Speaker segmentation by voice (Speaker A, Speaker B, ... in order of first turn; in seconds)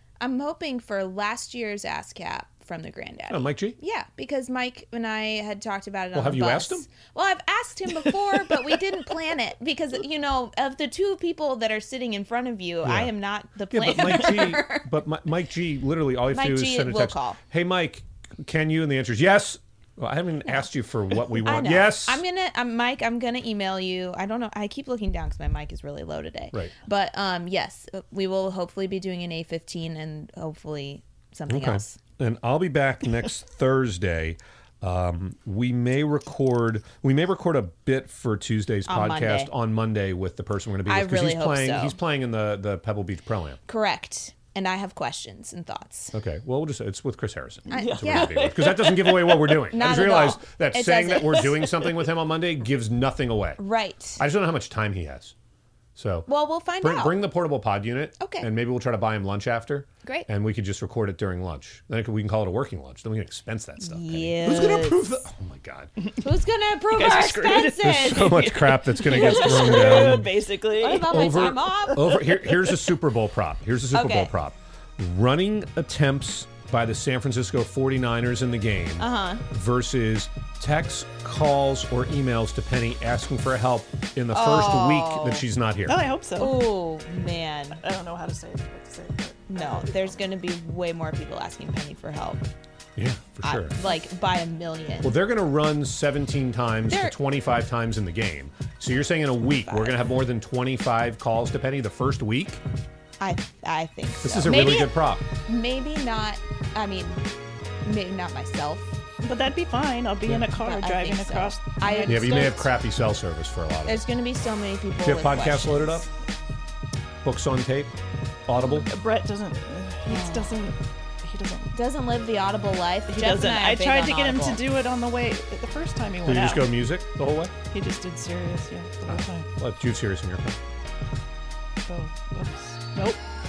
Speaker A: 0.2-14.9, 16.3-17.4, 21.4-32.0, 38.9-39.5, 40.9-42.0, 43.7-46.1, 47.7-48.3, 49.7-51.5, 53.6-54.2, 56.3-57.2, 58.2-58.5, 63.8-65.2, 66.2-68.5, 69.1-70.1, 70.7-72.2, 73.9-74.3, 79.0-79.4, 84.3-85.4, 86.4-87.8, 89.5-92.5, 93.4-95.2, 96.9-97.1, 99.7-100.1, 103.2-107.2, 107.8-109.0, 110.5-112.7, 113.8-116.1, 120.0-120.6, 121.7-124.6
Speaker B: 3.3-3.8, 6.1-6.9, 12.8-13.1, 13.7-22.2, 31.5-43.6, 46.1-53.6, 54.2-55.3, 56.0-65.9, 67.8-70.3, 71.0-86.0, 93.0-93.8, 95.0-102.6, 104.2-105.2, 112.0-114.0, 115.0-116.1, 117.2-117.9, 118.5-118.9, 126.2-127.5, 129.1-130.6
Speaker C: 47.7-49.6, 66.9-71.4, 72.0-72.7, 85.8-86.7, 87.7-90.2, 109.2-112.5, 118.9-121.8, 123.1-126.7, 127.7-129.5, 131.8-133.2